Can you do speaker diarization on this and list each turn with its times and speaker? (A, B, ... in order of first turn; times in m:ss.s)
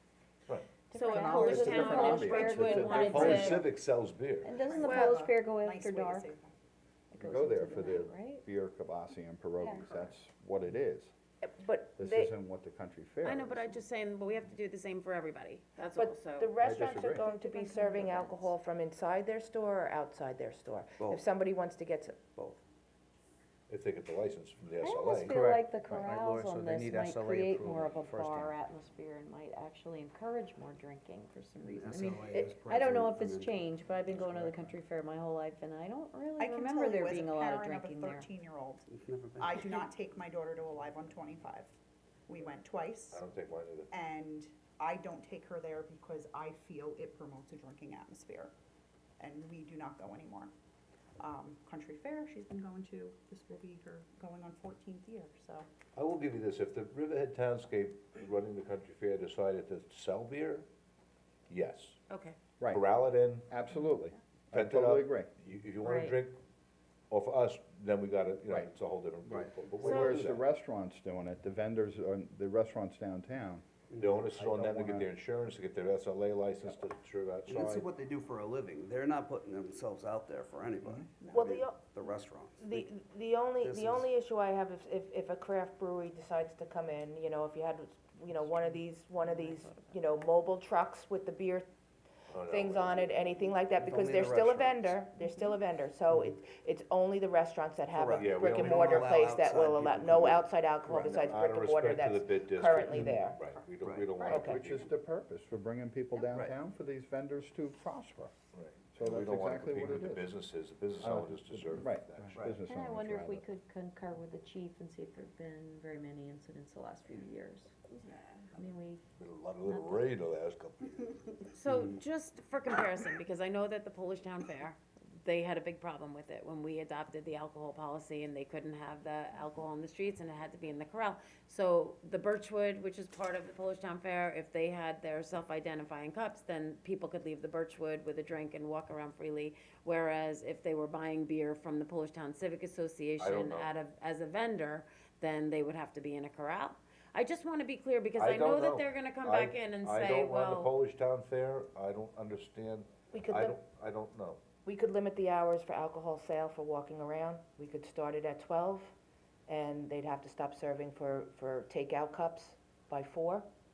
0:00.5-0:00.8 A
0:00.9-0:03.6 B
0:00.9-0:03.7 C
0:01.2-0:03.1 D
0:01.4-0:03.6 E
0:02.8-0:04.5 A
0:04.4-0:06.3 B
0:04.5-0:06.6 D
0:04.8-0:05.2 C
0:07.1-0:08.4 B
0:07.2-0:11.1 E
0:09.6-0:10.0 B
0:11.4-0:12.3 F
0:12.0-0:13.8 E
0:13.2-0:16.5 C
0:15.9-0:22.2 F
0:16.6-0:17.2 E
0:17.2-0:18.5 B
0:21.0-0:21.2 G
0:22.4-0:22.6 G
0:23.7-0:25.3 A
0:24.8-0:38.3 B
0:26.0-0:28.5 G
0:31.6-0:34.7 G
0:36.4-0:41.7 D
0:39.0-0:39.5 G
0:42.3-0:48.5 D
0:43.1-0:43.9 A
0:49.2-0:50.5 D
0:51.2-0:55.7 D
0:56.0-1:00.7 A
1:01.5-1:02.0 A
1:02.1-1:02.4 C
1:02.7-1:03.5 A
1:03.5-1:05.3 E
1:04.5-1:06.4 A
1:05.8-1:06.2 B
1:07.1-1:10.4 A
1:09.8-1:13.8 E
1:09.8-1:10.2 C
1:13.9-1:14.2 G
1:14.0-1:17.8 A
1:14.4-1:15.1 E
1:17.4-1:22.8 G
1:21.3-1:21.8 F
1:22.6-1:31.7 F
1:23.6-1:24.1 G
1:29.2-1:29.7 C
1:32.3-1:33.1 A
1:32.4-1:43.4 F
1:33.8-1:35.0 G
1:37.9-1:40.5 G
1:38.2-1:39.1 A
1:40.9-1:44.9 A
1:43.7-1:44.3 G
1:44.2-1:48.3 E
1:44.2-1:44.6 F
1:46.3-1:46.5 G
1:48.5-1:52.4 A
1:48.9-1:50.3 E
1:51.0-1:53.4 E
1:52.3-1:52.6 G
1:52.6-1:58.0 B
1:58.5-1:59.0 B
1:59.2-2:01.1 A
1:59.6-2:00.2 B
2:01.5-2:30.7 C
2:23.2-2:23.7 A
2:28.2-2:34.4 A
2:33.1-2:33.6 F
2:34.6-2:38.9 F
2:39.5-2:43.4 F